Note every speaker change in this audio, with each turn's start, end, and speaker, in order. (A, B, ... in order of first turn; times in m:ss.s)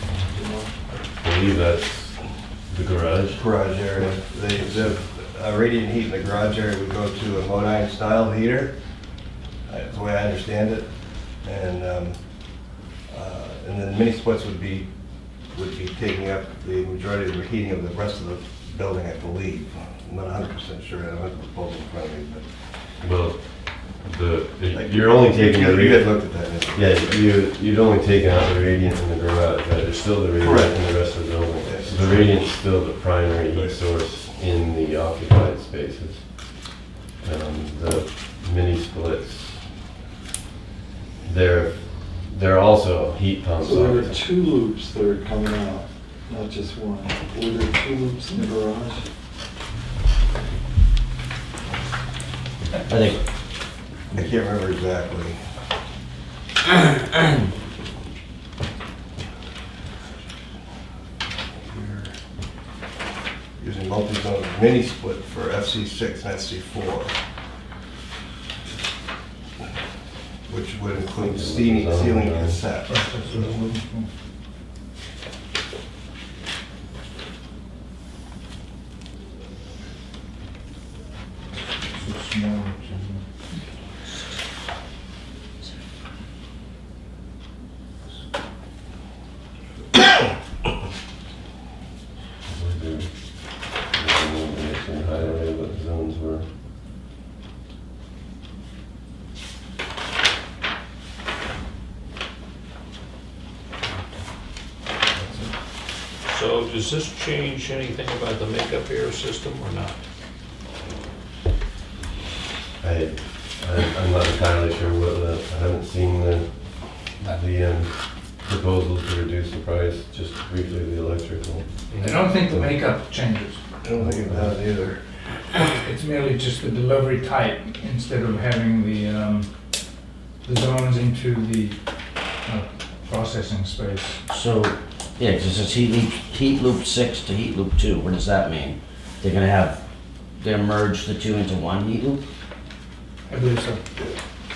0:00.3-0:00.7 A
0:01.2-0:03.4 B
0:03.3-0:08.8 C
0:09.6-0:22.6 C
0:23.0-0:39.7 B
0:24.7-0:27.2 C
0:30.4-0:30.9 C
0:31.6-0:32.2 C
0:33.4-0:33.8 C
0:41.2-0:44.2 B
0:43.6-0:49.0 A
0:52.9-0:53.2 D
0:54.1-0:55.4 C
1:01.5-1:02.2 C
1:03.6-1:07.1 C
1:10.5-1:13.1 C
1:11.2-1:12.7 B
1:12.8-1:14.1 E
1:21.8-1:23.2 E
1:32.4-1:36.5 B
1:46.2-1:50.0 F
1:52.8-2:02.7 B
2:01.9-2:02.3 F
2:02.0-2:03.6 E
2:03.8-2:05.0 C
2:04.0-2:04.6 B
2:05.8-2:09.6 E
2:10.4-2:14.2 E
2:14.3-2:19.8 D
2:20.4-2:22.2 D
2:23.3-2:23.8 E